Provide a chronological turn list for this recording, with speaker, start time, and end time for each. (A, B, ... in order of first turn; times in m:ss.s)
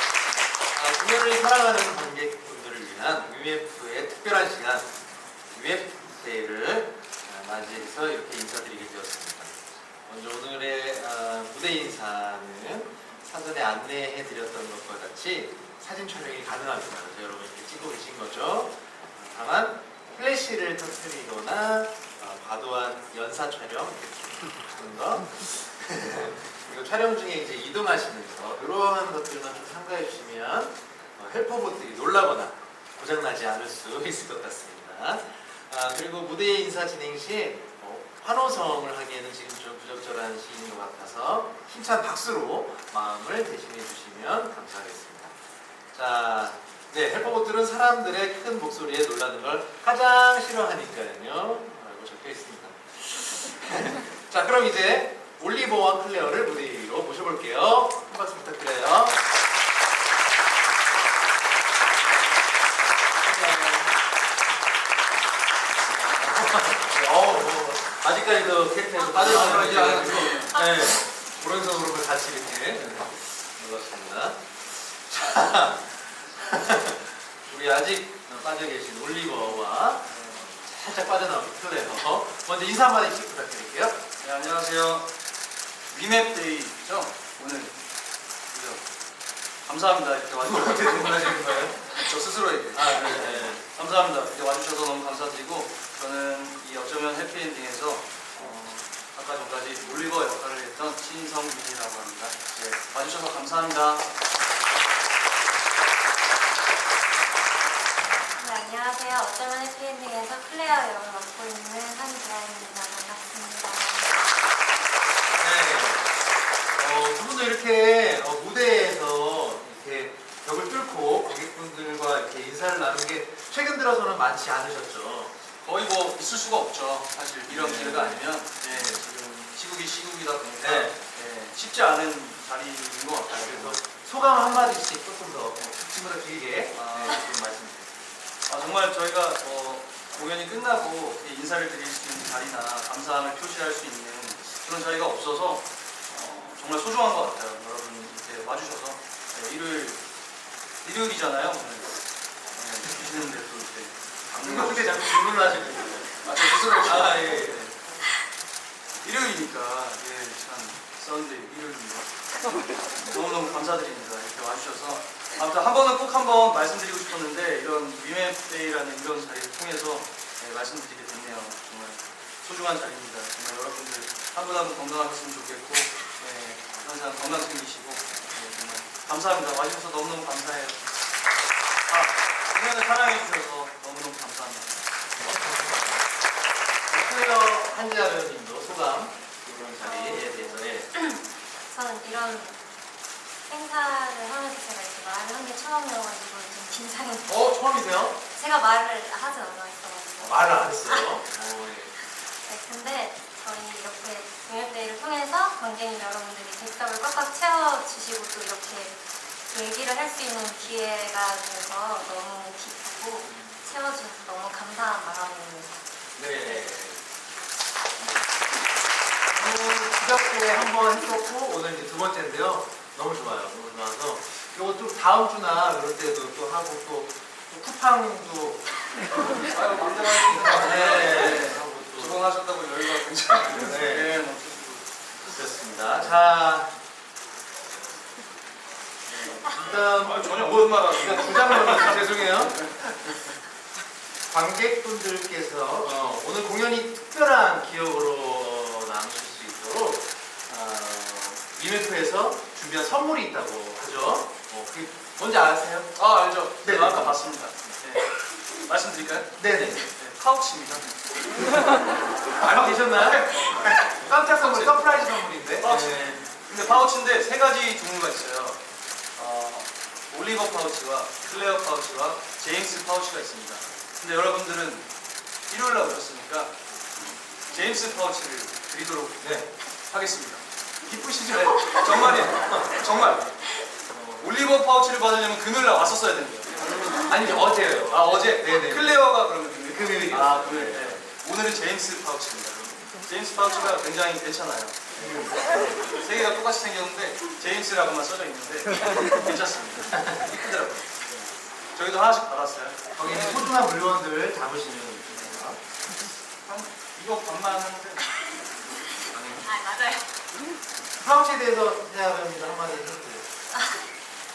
0:00.7-0:04.9 A
0:05.5-0:45.3 A
0:45.9-0:59.2 A
1:03.2-1:04.0 A
1:05.8-1:24.0 A
1:09.1-1:10.6 B
1:20.1-1:20.4 B
1:24.2-1:25.1 B
1:25.9-1:27.8 B
1:28.5-1:28.8 B
1:29.6-1:44.1 B
1:30.4-1:31.9 A
1:32.7-1:33.6 A
1:48.3-1:54.2 C
1:55.4-1:56.1 A
1:56.8-2:05.3 A
2:05.6-2:13.8 B
2:07.5-2:09.0 A
2:10.6-2:11.0 A
2:13.3-2:18.0 A
2:16.7-2:17.2 B
2:18.5-2:30.0 B
2:30.8-2:31.9 B
2:32.5-2:35.2 B
2:34.3-2:37.7 A
2:36.2-2:37.7 B
2:39.0-2:42.1 B
2:43.0-3:00.8 B
3:01.9-3:04.8 B
3:05.2-3:06.0 A
3:06.9-3:10.9 A
3:09.8-3:12.6 C
3:13.5-3:17.5 C
3:17.3-3:18.2 A
3:18.3-3:21.2 C
3:20.2-3:21.9 A
3:22.4-3:36.7 C
3:33.3-3:33.6 A
3:36.2-3:37.0 A
3:39.3-3:48.7 A
3:49.5-3:54.9 B
3:50.3-3:52.2 A
3:53.6-3:54.2 A
3:55.2-3:56.7 A
3:59.1-4:02.6 A
4:00.0-4:03.2 B
4:04.3-4:15.9 A
4:16.0-4:19.3 B
4:16.6-4:17.2 A
4:19.4-4:19.9 A
4:19.9-4:20.9 B
4:22.4-4:28.6 B
4:22.4-4:26.2 A
4:29.2-4:34.9 B
4:35.5-4:36.5 B
4:37.5-4:40.4 B
4:39.2-4:39.5 A
4:40.9-4:43.2 A
4:41.2-4:43.3 B
4:43.9-4:44.2 A
4:44.2-4:47.0 B
4:47.0-4:49.0 A
4:47.9-4:55.1 B
4:49.7-4:51.1 A
4:55.0-4:55.8 A
4:55.9-5:03.5 B
4:59.9-5:00.4 A
5:02.9-5:05.6 A
5:06.4-5:08.2 B
5:09.1-5:09.5 B
5:09.4-5:10.1 C
5:11.0-5:13.3 A
5:13.5-5:13.9 C